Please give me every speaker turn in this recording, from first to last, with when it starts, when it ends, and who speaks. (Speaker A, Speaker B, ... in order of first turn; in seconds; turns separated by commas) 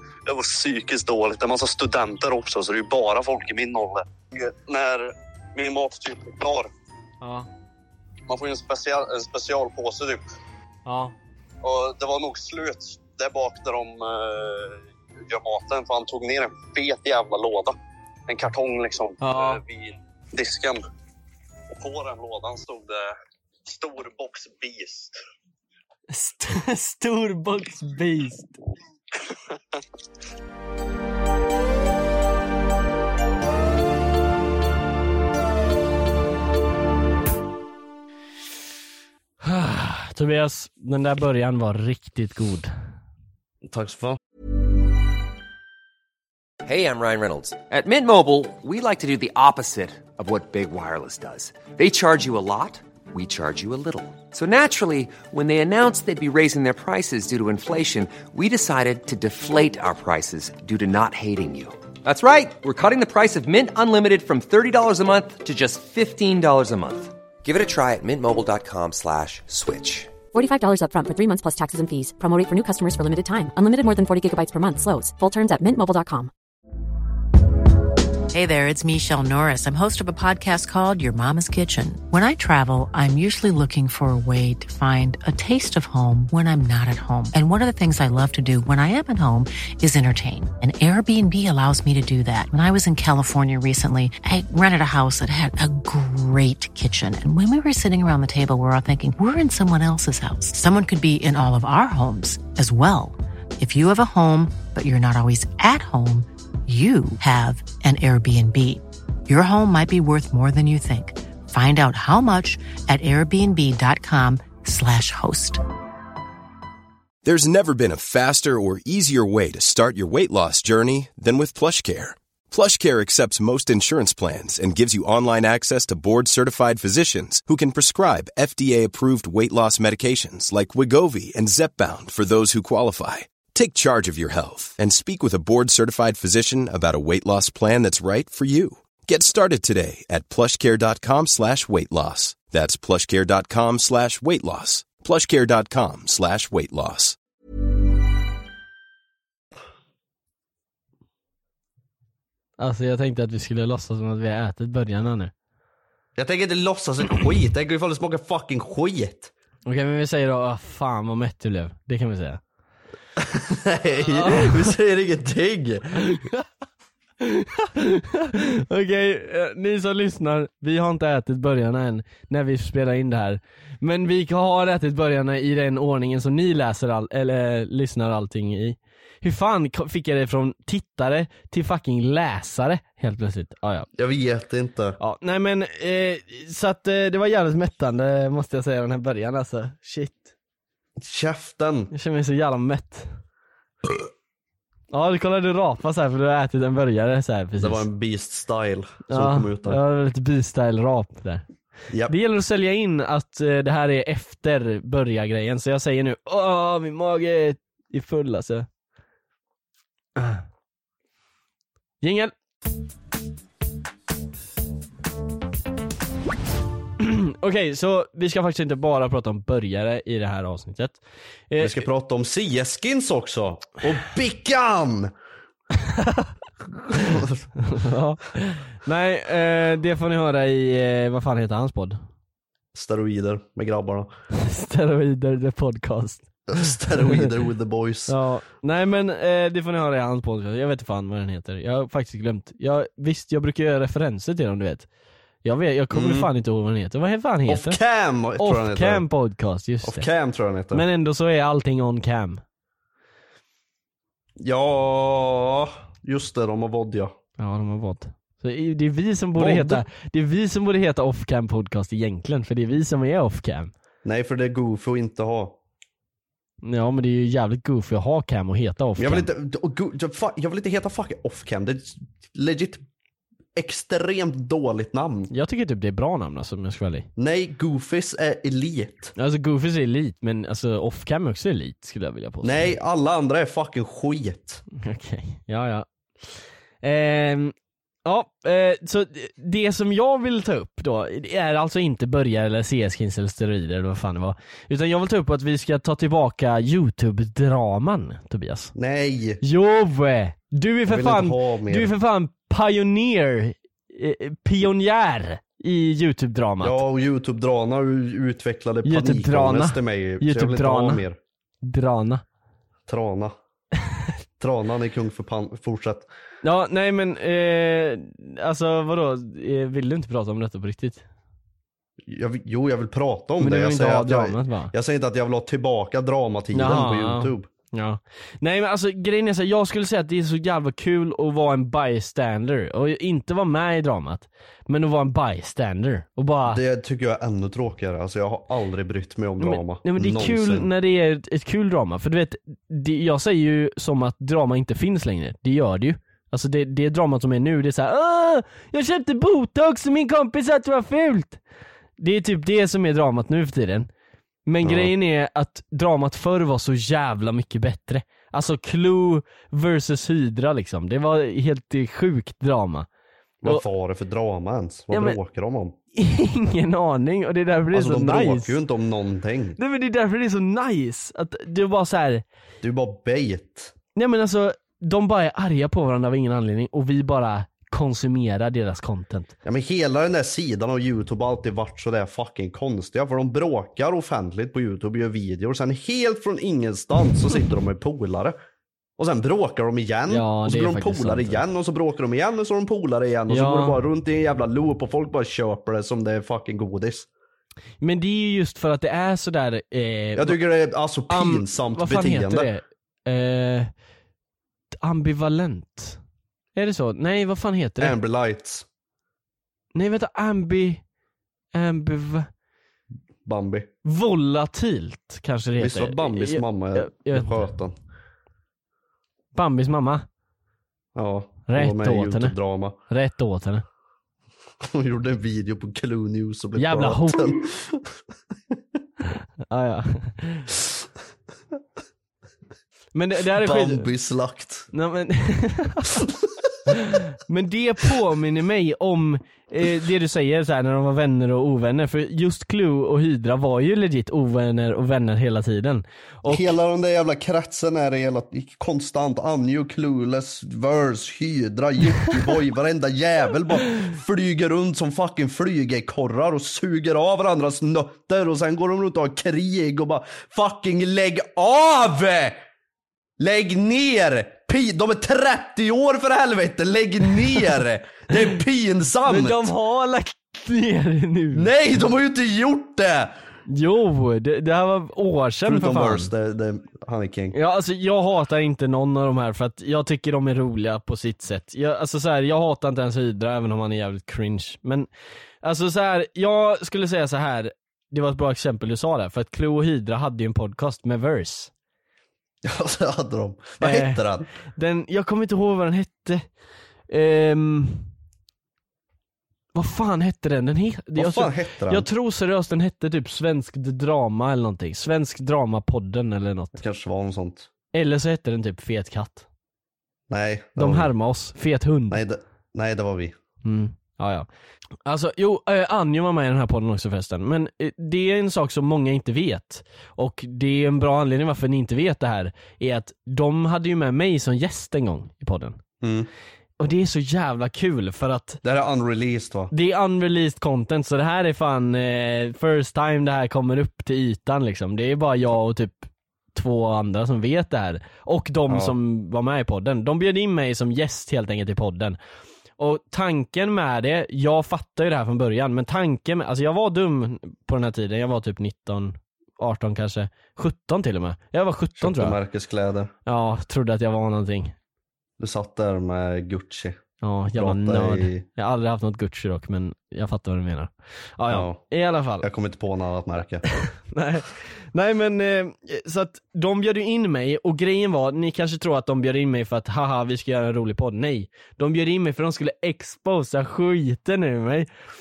Speaker A: 0.3-5.0, Speaker A: 5.6-6.7, Speaker B: 7.2-7.5, Speaker A: 8.3-10.2, Speaker B: 10.8-11.2, Speaker A: 11.7-14.8, Speaker A: 15.3-17.7, Speaker A: 18.3-20.8, Speaker B: 19.2-19.6, Speaker A: 21.8-23.0, Speaker A: 23.7-25.1, Speaker B: 26.1-28.5, Speaker B: 39.4-42.7, Speaker C: 43.6-44.2, Speaker D: 46.6-70.1, Speaker E: 70.3-76.3, Speaker F: 78.3-115.6, Speaker G: 117.2-147.2, Speaker B: 152.6-155.3, Speaker C: 156.2-159.3, Speaker B: 159.7-162.4, Speaker C: 163.2-166.2, Speaker B: 164.1-164.7, Speaker B: 166.1-166.4, Speaker B: 167.2-183.9, Speaker C: 183.9-185.0, Speaker B: 185.0-190.3, Speaker C: 191.0-191.9, Speaker B: 191.9-193.1, Speaker B: 194.9-197.9, Speaker C: 197.6-199.8, Speaker B: 199.1-201.4, Speaker C: 201.9-202.2, Speaker B: 202.1-208.7, Speaker B: 210.2-210.4, Speaker B: 212.0-212.3, Speaker B: 217.0-221.8, Speaker C: 221.6-225.1, Speaker B: 225.8-226.3, Speaker C: 226.9-227.4, Speaker B: 226.9-232.0, Speaker C: 232.7-234.1, Speaker B: 234.3-237.3, Speaker C: 236.5-238.2, Speaker B: 238.1-244.9, Speaker B: 245.4-247.8, Speaker C: 245.9-246.3, Speaker C: 247.5-249.1, Speaker B: 248.4-250.1, Speaker C: 249.8-250.8, Speaker B: 250.7-252.4, Speaker C: 254.4-257.1, Speaker B: 257.4-263.7, Speaker C: 259.4-259.8, Speaker C: 264.0-265.6, Speaker B: 266.6-269.3, Speaker C: 269.0-272.9, Speaker C: 273.6-275.3, Speaker B: 275.3-277.1, Speaker C: 277.2-279.1, Speaker B: 279.2-282.7, Speaker C: 282.4-284.6, Speaker B: 284.8-285.9, Speaker B: 286.8-287.5, Speaker B: 288.1-298.7, Speaker C: 298.8-299.4, Speaker B: 299.4-306.8, Speaker C: 300.9-301.9, Speaker C: 306.6-311.2, Speaker B: 308.9-311.0, Speaker B: 311.6-312.2, Speaker C: 312.9-313.4, Speaker C: 314.4-316.1, Speaker B: 316.4-321.0, Speaker C: 322.1-327.5, Speaker B: 323.4-324.7, Speaker B: 326.5-336.6, Speaker C: 336.5-340.7, Speaker B: 339.4-351.4, Speaker B: 352.0-353.9, Speaker B: 354.5-362.9, Speaker C: 354.6-354.9, Speaker C: 363.4-365.8, Speaker B: 364.9-365.2, Speaker B: 366.0-368.6, Speaker C: 367.7-369.6, Speaker B: 369.6-372.2, Speaker C: 372.6-373.7, Speaker B: 374.0-379.3, Speaker C: 379.4-388.4, Speaker C: 389.0-397.1, Speaker B: 390.1-391.4, Speaker B: 393.3-393.8, Speaker B: 397.8-400.4, Speaker C: 400.2-402.5, Speaker B: 401.1-403.7, Speaker B: 404.8-406.0, Speaker B: 406.6-408.0, Speaker C: 407.8-408.6, Speaker B: 409.8-410.8, Speaker B: 411.5-412.3, Speaker C: 413.2-413.7, Speaker B: 413.9-417.5, Speaker C: 415.6-417.8, Speaker B: 419.3-420.1, Speaker C: 420.9-422.8, Speaker B: 421.5-422.4, Speaker B: 422.9-423.6, Speaker C: 424.6-427.9, Speaker B: 426.6-427.4, Speaker B: 429.5-430.5, Speaker B: 432.9-433.9, Speaker C: 433.4-434.7, Speaker B: 434.7-436.0, Speaker B: 436.7-446.5, Speaker C: 446.3-462.4, Speaker C: 463.2-469.5, Speaker B: 469.1-471.5, Speaker C: 471.3-473.1, Speaker B: 473.5-476.1, Speaker C: 475.5-477.4, Speaker B: 477.3-484.9, Speaker B: 485.4-491.5, Speaker C: 492.4-494.3, Speaker B: 493.6-496.2, Speaker B: 496.9-497.9, Speaker B: 499.6-506.6, Speaker C: 501.0-501.9, Speaker C: 506.6-507.5, Speaker B: 507.7-509.3, Speaker C: 510.1-510.9, Speaker B: 510.6-512.0, Speaker C: 511.9-513.1, Speaker B: 513.4-514.3, Speaker B: 514.9-525.6, Speaker C: 525.8-526.1, Speaker B: 526.6-528.4, Speaker C: 528.4-529.5, Speaker B: 529.5-542.0, Speaker C: 538.5-538.8, Speaker B: 542.6-552.2, Speaker C: 551.8-552.9, Speaker B: 553.1-554.5, Speaker C: 555.2-556.8, Speaker B: 557.0-562.3, Speaker C: 557.3-558.2, Speaker C: 561.3-561.6, Speaker C: 562.2-563.4, Speaker B: 563.6-574.7